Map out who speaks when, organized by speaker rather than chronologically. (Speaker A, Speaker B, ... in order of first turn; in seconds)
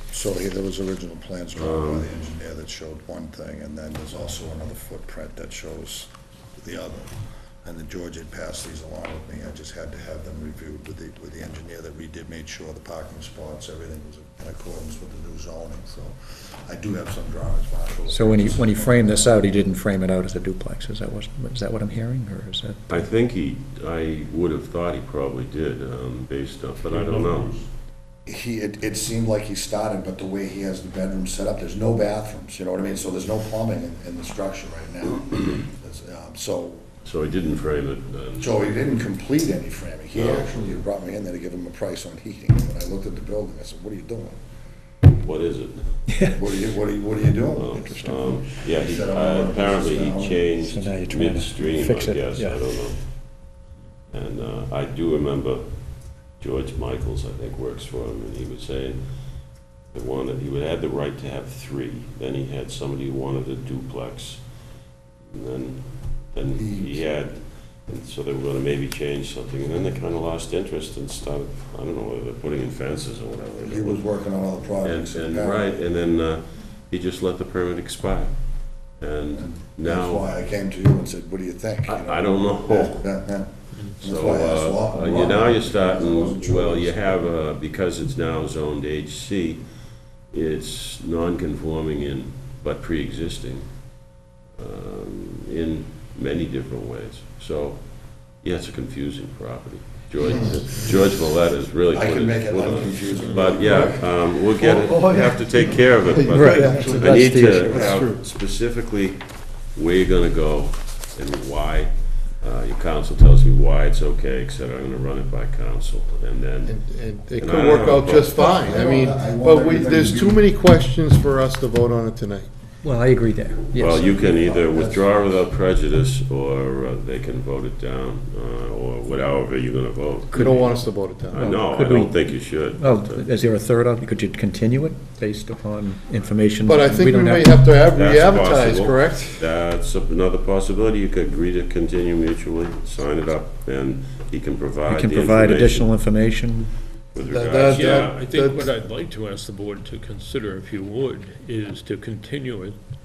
Speaker A: 0.1-7.1, 7.6-19.8, 28.2-36.9, 38.4-44.4, 46.2-50.5, 66.5-67.0, 73.6-75.8, 79.3-87.2, 100.2-101.2, 101.9-104.2, 118.2-120.4, 124.2-125.2
Speaker B: 1.6-2.1, 22.9-27.6, 37.0-38.6, 40.1-40.5, 45.2-46.0, 47.5-53.5, 54.1-64.7, 65.2-74.1, 74.8-80.3, 81.8-83.1, 84.0-94.0, 94.5-116.8, 117.3-118.4, 123.7-130.7, 131.3-133.3, 137.8-145.9, 147.1-148.3
Speaker C: 18.1-22.9, 46.1-46.4, 50.6-52.6, 106.3-108.0, 122.8-124.2, 130.3-130.7, 131.2-137.7, 144.8-146.7
Speaker D: 104.6-108.2, 116.6-122.5, 130.3-131.5, 136.6-139.5, 147.2-148.8
Speaker E: 147.6-152.8